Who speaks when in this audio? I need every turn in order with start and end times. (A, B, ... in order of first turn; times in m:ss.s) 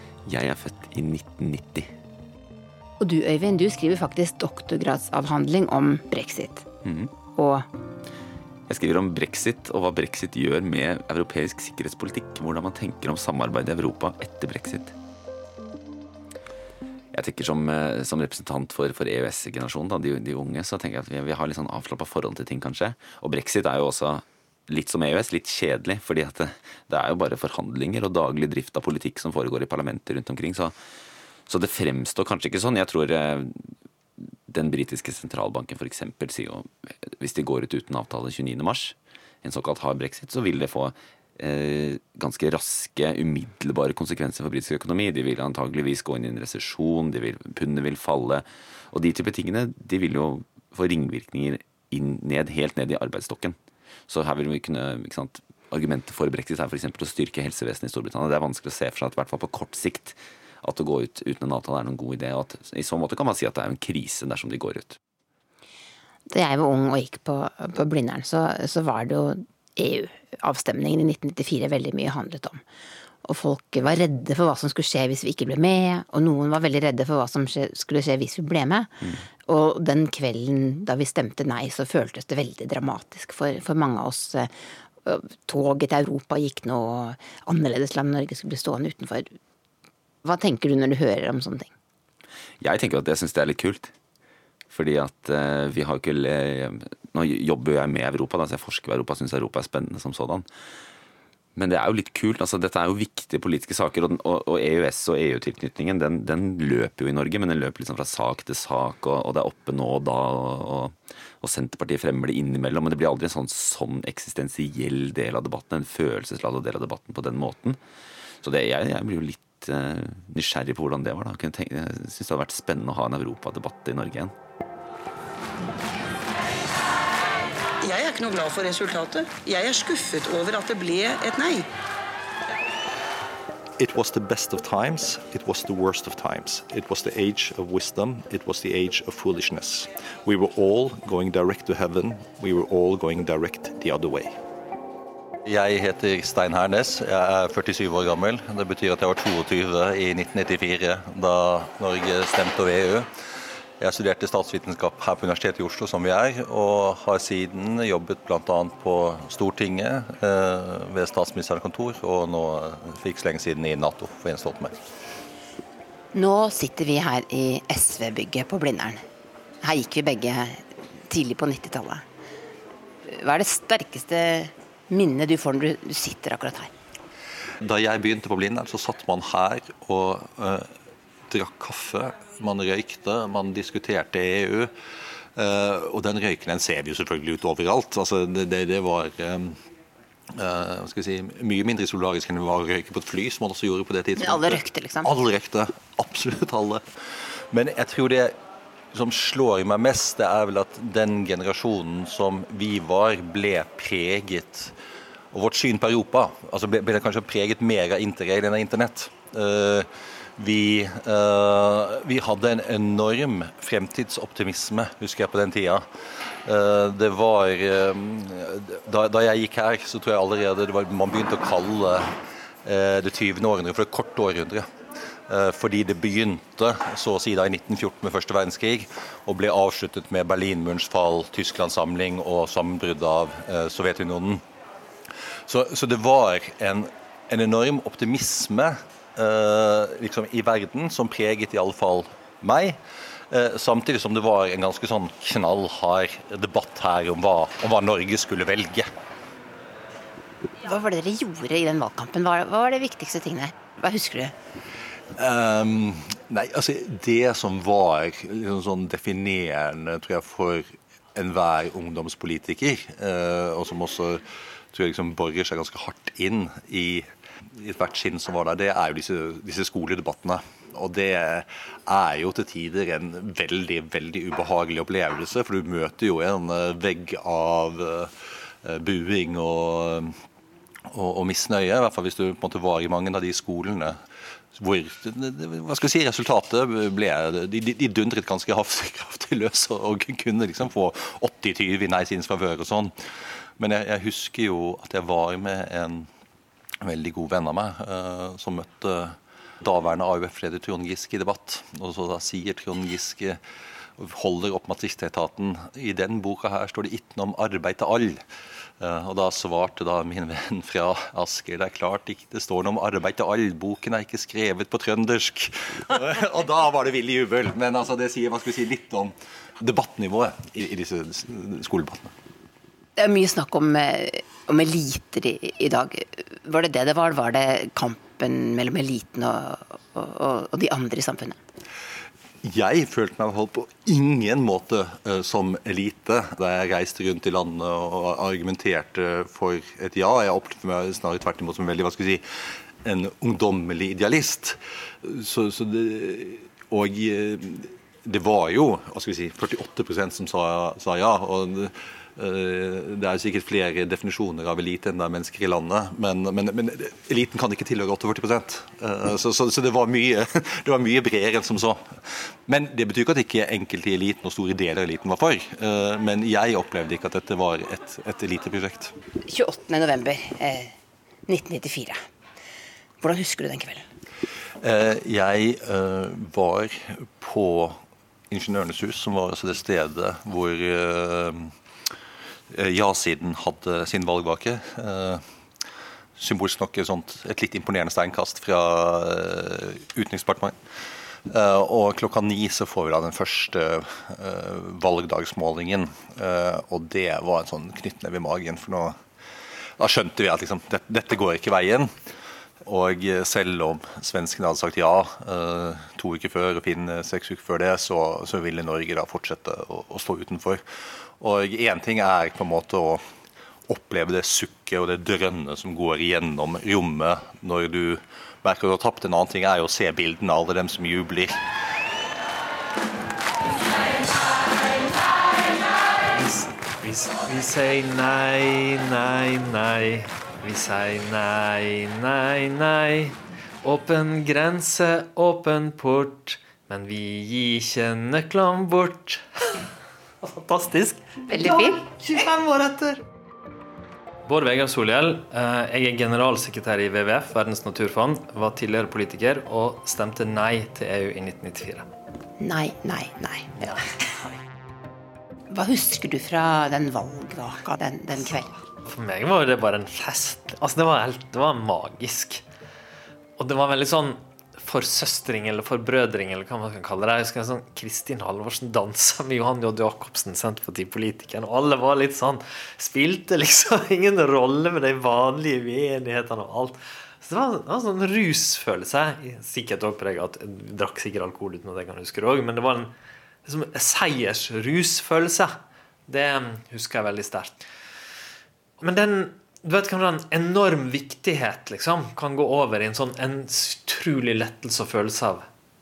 0:00.3-0:01.9 A
0:03.0-0:06.7 B
0:06.8-0:07.2 A
0:07.2-0:07.7 B
0:08.7-0:14.9 A
0:17.1-0:30.8 A
0:31.5-0:33.6 A
0:34.5-0:53.6 A
0:54.1-1:05.0 A
1:06.3-1:12.6 B
1:13.2-1:29.4 B
1:30.2-1:31.7 B
1:32.6-1:33.9 A
1:34.7-1:40.4 A
1:41.6-1:57.8 A
1:58.4-2:04.3 A
2:07.8-2:11.7 C
2:13.8-2:24.4 D
2:25.5-2:33.1 E
2:33.8-2:44.8 E
2:46.1-2:49.0 B
2:49.6-2:52.0 B
2:53.1-2:56.7 B
2:57.6-3:00.7 E
3:01.3-3:04.7 E
3:05.4-3:09.6 E
3:10.3-3:16.8 E
3:14.2-3:15.1 B
3:17.5-3:18.4 E
3:18.9-3:24.7 E
3:25.3-3:35.8 E
3:36.4-3:42.1 E
3:42.6-3:44.7 E
3:45.3-3:54.4 E
3:55.5-4:02.8 E
4:03.3-4:08.9 E
4:10.6-4:14.3 B
4:15.2-4:27.1 E
4:27.6-4:38.1 E
4:38.6-4:40.1 E
4:40.9-4:44.0 E
4:44.6-4:52.9 E
4:53.6-4:56.1 E
4:56.8-5:03.4 E
5:04.0-5:08.2 E
5:08.8-5:22.1 E
5:23.0-5:31.4 B
5:32.4-5:42.2 E
5:42.8-6:01.9 E
6:02.5-6:08.9 E
6:09.3-6:10.7 B
6:11.3-6:12.0 B
6:13.0-6:13.9 B
6:14.6-6:17.8 E
6:18.3-6:21.5 E
6:22.5-6:25.2 E
6:26.2-6:30.6 E
6:31.3-6:39.0 E
6:39.8-6:41.9 E
6:42.6-6:50.6 E
6:51.2-6:53.0 E
6:53.7-7:01.4 E
7:06.1-7:19.6 F
7:20.2-7:21.0 F
7:21.3-7:21.9 B
7:21.9-7:23.0 F
7:24.3-7:31.9 F
7:32.4-7:33.9 B
7:35.5-7:38.5 B
7:38.8-7:42.4 F
7:43.4-8:02.9 F
8:03.4-8:07.6 F
8:08.8-8:15.5 F